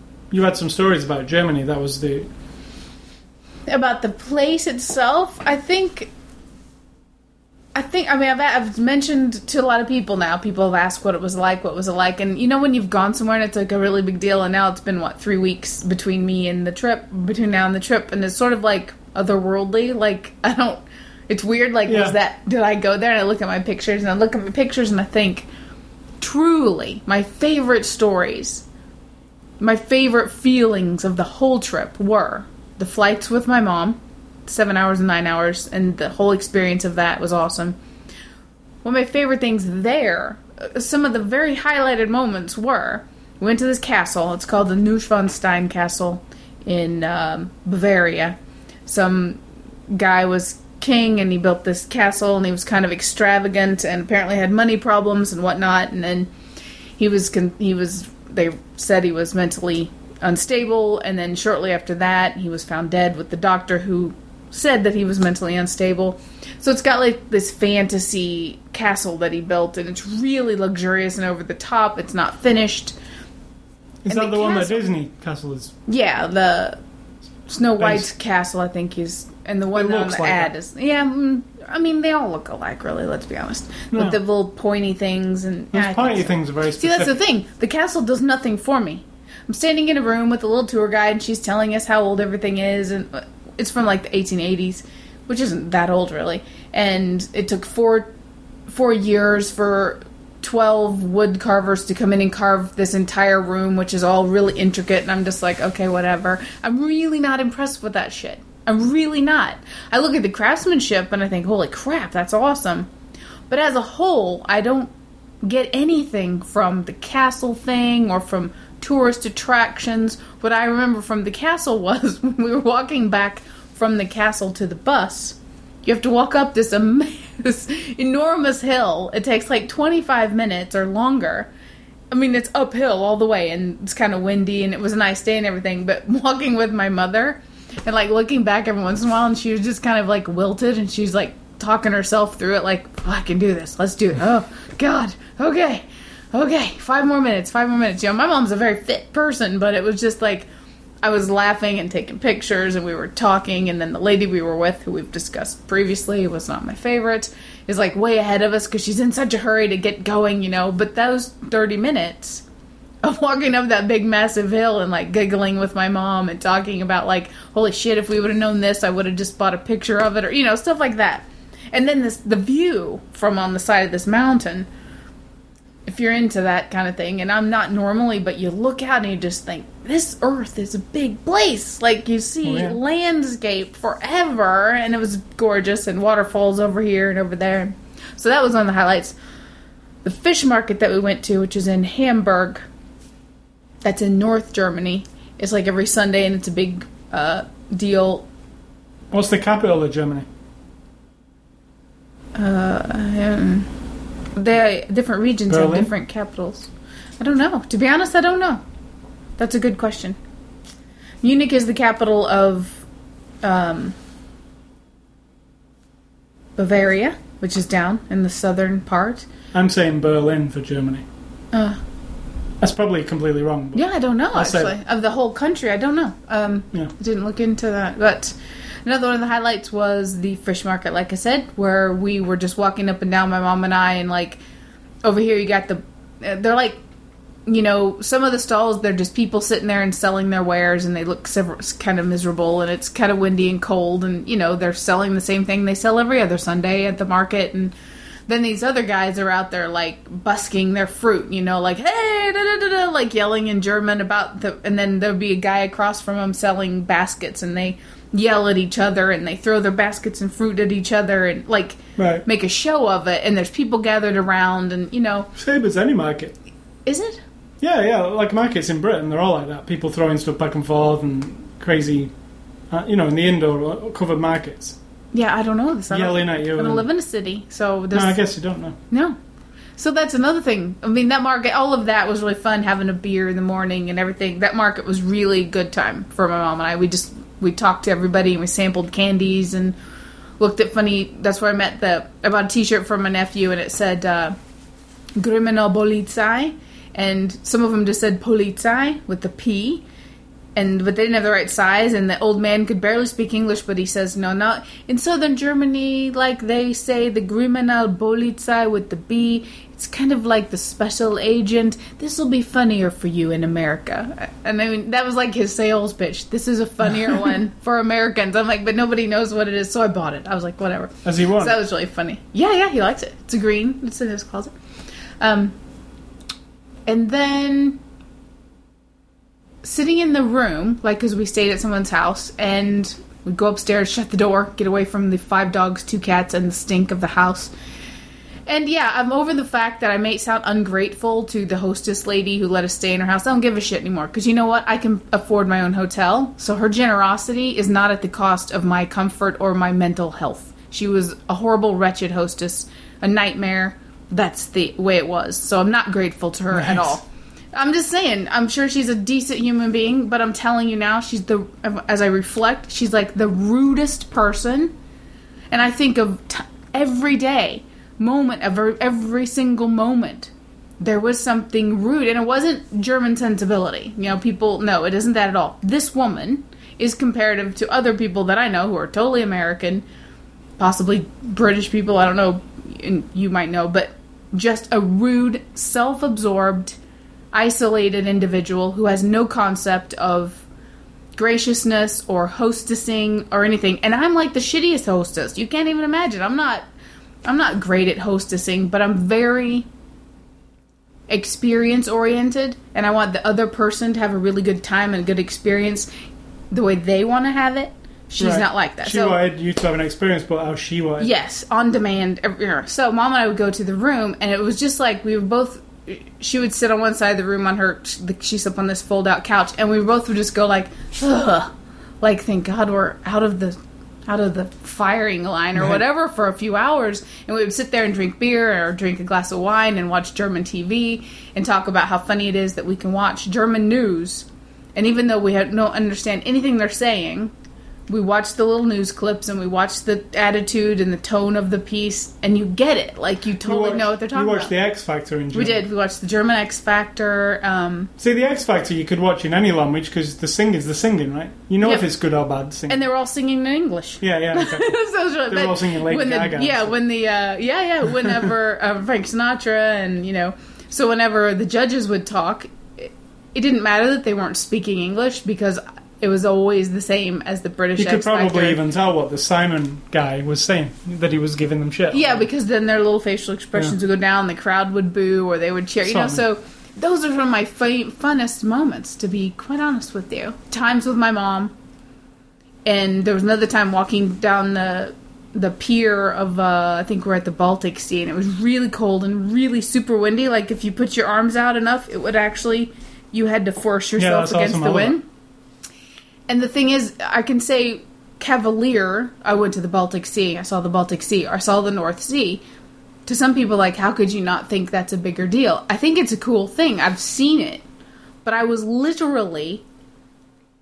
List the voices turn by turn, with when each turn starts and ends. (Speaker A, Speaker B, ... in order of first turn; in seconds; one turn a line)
Speaker A: 0.3-2.3
Speaker B: 3.7-6.1
Speaker B: 7.7-25.5
Speaker A: 21.9-22.1
Speaker B: 26.2-28.6
Speaker B: 29.6-37.8
Speaker B: 38.8-48.4
Speaker B: 48.9-49.4
Speaker B: 49.9-56.3
Speaker B: 57.0-72.9
Speaker A: 74.0-75.7
Speaker B: 74.1-74.8
Speaker B: 75.9-76.8
Speaker B: 77.5-98.1
Speaker A: 77.8-78.1
Speaker A: 79.7-80.5
Speaker A: 83.9-84.2
Speaker A: 85.7-87.2
Speaker B: 98.7-112.9
Speaker B: 113.5-114.9
Speaker B: 115.4-131.5
Speaker B: 132.1-150.5
Speaker B: 151.0-162.4
Speaker B: 163.0-174.7
Speaker B: 175.9-189.2
Speaker A: 182.4-182.8
Speaker B: 190.0-192.6
Speaker B: 193.8-198.2
Speaker A: 199.1-200.3
Speaker B: 202.3-203.7
Speaker B: 204.3-208.6
Speaker A: 205.5-205.9
Speaker B: 209.4-210.2
Speaker B: 211.2-212.8
Speaker B: 213.4-213.9
Speaker B: 216.6-219.2
Speaker A: 219.5-221.0
Speaker B: 221.5-221.8
Speaker A: 222.6-224.7
Speaker B: 223.7-234.4
Speaker B: 235.0-236.8
Speaker B: 237.4-247.7
Speaker B: 248.3-265.3
Speaker A: 262.0-262.2
Speaker A: 265.3-266.4
Speaker B: 266.9-267.2
Speaker A: 267.6-272.1
Speaker A: 272.7-274.8
Speaker B: 275.1-278.2
Speaker A: 275.9-276.9
Speaker A: 277.9-278.8
Speaker B: 278.9-279.2
Speaker B: 279.8-289.7
Speaker B: 290.4-294.4
Speaker B: 295.2-299.8
Speaker B: 300.6-324.5
Speaker A: 321.0-321.5
Speaker B: 325.2-325.5
Speaker B: 326.9-327.8
Speaker B: 329.6-337.5
Speaker B: 338.5-357.0
Speaker A: 356.5-357.0
Speaker B: 357.5-364.7
Speaker B: 365.5-379.8
Speaker B: 380.6-386.8
Speaker B: 387.3-390.4
Speaker B: 391.1-396.6
Speaker B: 397.2-399.7
Speaker B: 401.1-405.9
Speaker B: 406.5-409.2
Speaker A: 408.2-411.1
Speaker B: 411.0-421.5
Speaker B: 422.0-437.3
Speaker B: 437.9-444.5
Speaker A: 443.4-445.6
Speaker B: 445.3-447.9
Speaker A: 448.0-452.8
Speaker B: 452.7-468.6
Speaker A: 454.0-456.8
Speaker A: 467.8-472.2
Speaker B: 471.9-481.5
Speaker A: 475.8-476.2
Speaker B: 482.6-495.0
Speaker A: 494.0-495.0
Speaker B: 496.3-502.4
Speaker B: 503.1-507.6
Speaker B: 508.2-509.6